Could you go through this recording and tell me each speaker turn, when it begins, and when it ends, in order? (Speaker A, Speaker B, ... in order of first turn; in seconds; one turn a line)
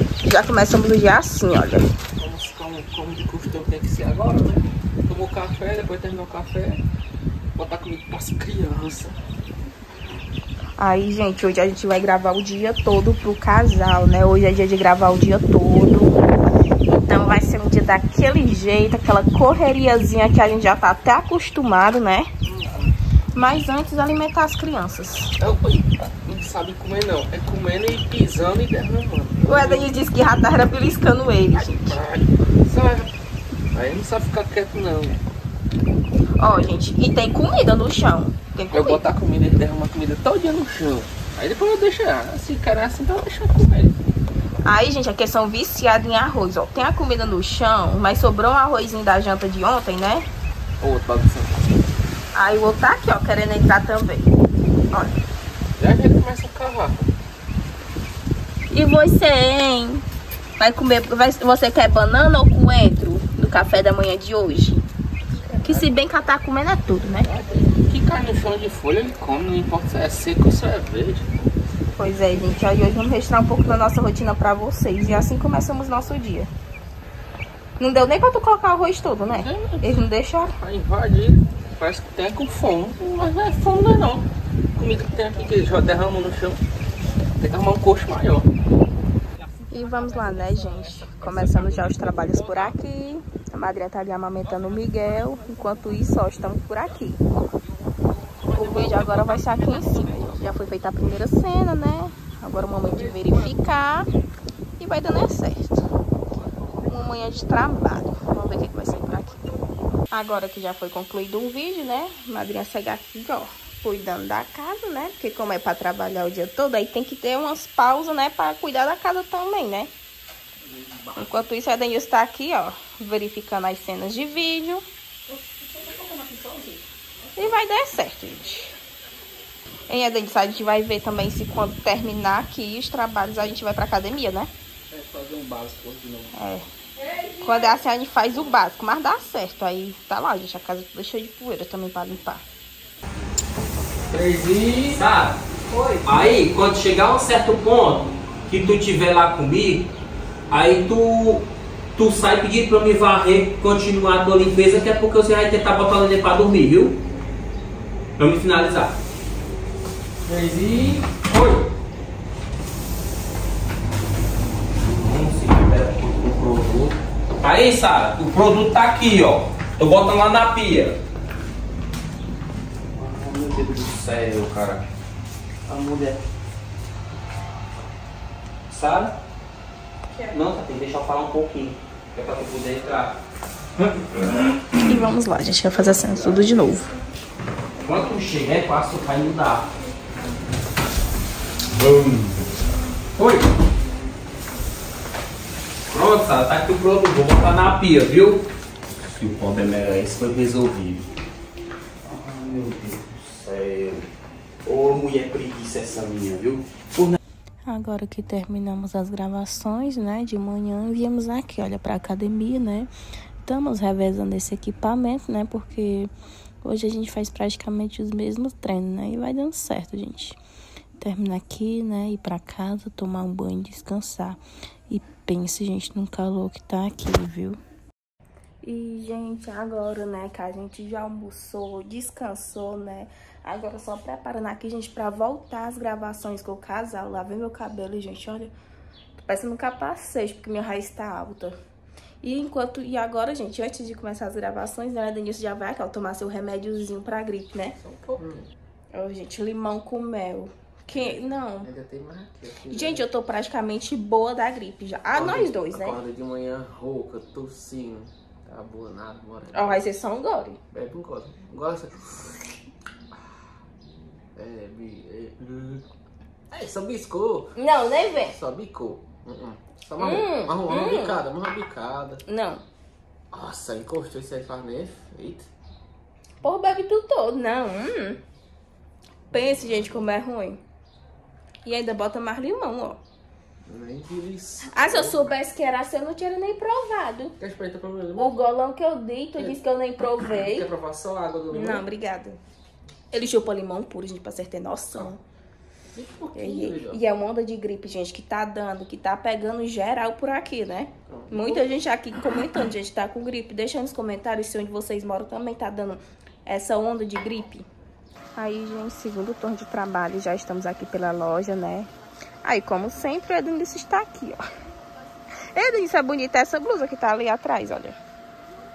Speaker A: 0.2-1.9
Speaker B: 2.2-6.8
Speaker B: 7.5-9.2
Speaker A: 10.8-16.2
Speaker A: 16.9-22.3
Speaker B: 22.4-22.9
Speaker A: 23.3-25.3
Speaker B: 25.4-29.9
Speaker A: 29.4-31.9
Speaker B: 31.5-33.1
Speaker B: 33.7-35.2
Speaker A: 36.4-39.0
Speaker B: 38.7-44.0
Speaker A: 44.6-50.2
Speaker B: 50.8-51.7
Speaker A: 52.3-54.3
Speaker B: 55.8-57.1
Speaker A: 58.7-60.0
Speaker A: 60.6-64.8
Speaker B: 65.4-65.9
Speaker A: 65.6-67.3
Speaker B: 67.2-71.5
Speaker A: 72.0-76.5
Speaker A: 77.8-80.5
Speaker B: 79.3-80.0
Speaker B: 80.5-86.6
Speaker B: 87.4-88.5
Speaker A: 89.7-97.2
Speaker B: 91.5-92.0
Speaker B: 98.5-99.2
Speaker A: 98.5-104.1
Speaker A: 104.8-105.9
Speaker A: 106.8-109.4
Speaker A: 110.1-119.9
Speaker B: 120.7-121.4
Speaker A: 121.2-124.8
Speaker B: 125.3-126.8
Speaker A: 127.3-128.7
Speaker A: 129.9-134.5
Speaker B: 134.9-136.3
Speaker A: 136.3-136.7
Speaker A: 137.4-142.4
Speaker B: 144.1-145.0
Speaker C: 144.8-145.4
Speaker C: 146.0-149.9
Speaker C: 150.5-157.0
Speaker C: 158.2-158.9
Speaker C: 160.3-161.7
Speaker C: 164.8-171.0
Speaker C: 172.9-174.8
Speaker C: 175.7-176.2
Speaker C: 178.7-179.1
Speaker C: 180.3-183.1
Speaker C: 184.0-184.2
Speaker A: 184.8-186.9
Speaker C: 187.8-189.7
Speaker C: 191.8-192.2
Speaker C: 193.2-193.5
Speaker C: 195.9-198.4
Speaker C: 199.2-201.0
Speaker C: 202.1-204.0
Speaker C: 204.7-207.2
Speaker A: 207.7-212.9
Speaker A: 213.4-216.1
Speaker A: 216.6-220.4
Speaker A: 221.0-227.6
Speaker A: 228.6-238.5
Speaker A: 239.2-241.5
Speaker A: 242.2-247.8
Speaker B: 247.8-248.5
Speaker A: 248.9-251.7
Speaker B: 250.9-253.1
Speaker A: 252.7-256.0
Speaker B: 255.1-259.8
Speaker A: 259.5-260.6
Speaker B: 260.7-262.6
Speaker B: 264.3-265.8
Speaker B: 266.5-272.2
Speaker A: 267.6-268.3
Speaker A: 270.0-271.2
Speaker A: 272.2-272.6
Speaker B: 273.3-275.5
Speaker A: 276.4-278.2
Speaker B: 279.3-280.1
Speaker A: 279.3-280.6
Speaker A: 281.6-283.0
Speaker B: 283.6-285.3
Speaker A: 284.7-287.4
Speaker B: 287.4-288.3
Speaker A: 288.2-290.7
Speaker B: 290.2-291.9
Speaker A: 291.5-292.4
Speaker A: 293.1-295.2
Speaker B: 295.9-297.0
Speaker A: 296.3-307.6
Speaker B: 301.1-301.7
Speaker A: 308.4-311.9
Speaker A: 312.4-314.4
Speaker A: 315.5-318.0